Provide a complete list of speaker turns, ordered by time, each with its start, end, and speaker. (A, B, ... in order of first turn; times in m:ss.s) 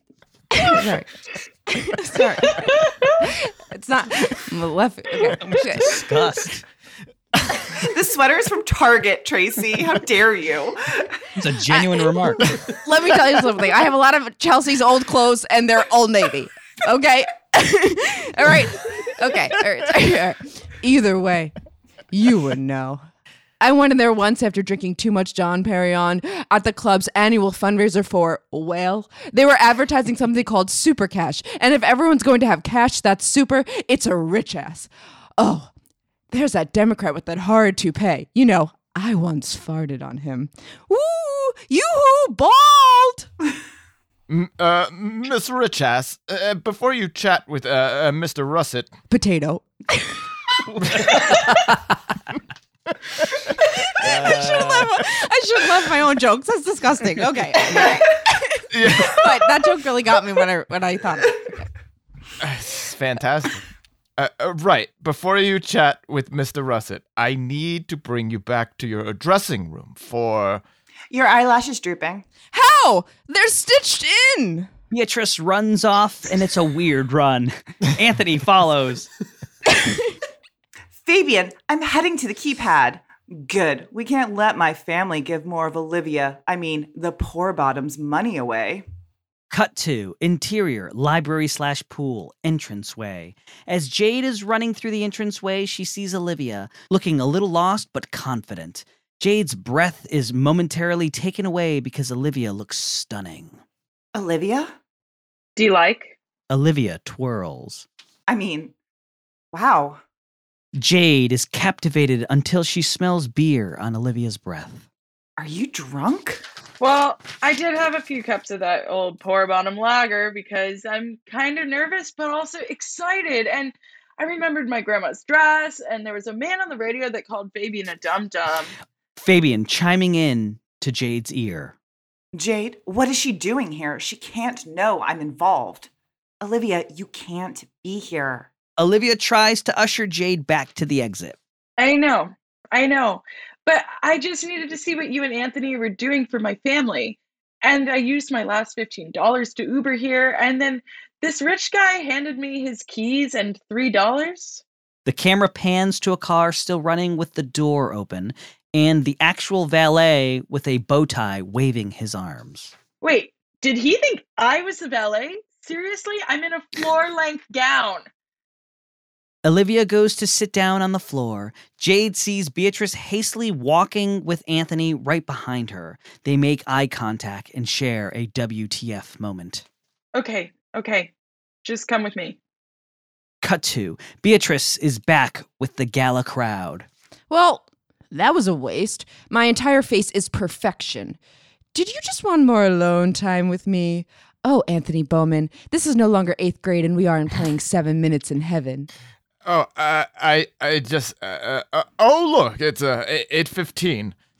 0:00.6-0:06.0 A
0:05.4-0:06.6 B
0:07.7-0:11.1 C
0:11.4-0:12.5 B
0:12.6-0:21.6 A
0:22.1-0:23.0 A
0:23.6-0:35.7 A
0:36.3-0:43.3 A
0:44.3-0:48.9 D
0:49.1-0:50.2 A
0:50.7-0:51.2 D
0:54.0-1:01.7 A
0:54.0-0:54.8 D
0:58.7-0:59.3 D
1:02.4-1:03.6 D
1:04.2-1:10.6 D
1:11.1-1:12.3 C
1:12.5-1:14.7 A
1:14.9-1:19.1 B
1:21.0-1:28.8 C
1:29.5-1:43.6 B
1:44.2-1:44.7 C
1:45.6-1:46.2 E
1:46.5-1:47.9 B
1:48.3-1:48.7 C
1:49.5-1:50.0 C
1:50.8-1:54.9 B
1:55.4-1:56.4 C
1:56.8-2:08.7 E
2:09.2-2:11.8 B
2:12.3-2:15.9 C
2:16.4-2:18.5 C
2:18.8-2:21.4 B
2:21.8-2:34.6 E
2:35.0-2:42.8 B
2:43.0-2:48.1 E
2:49.4-2:59.6 B
3:00.2-3:01.1 E
3:01.6-3:02.4 E
3:03.4-3:06.9 B
3:07.3-3:11.2 A
3:11.7-3:18.9 A
3:19.4-3:24.2 D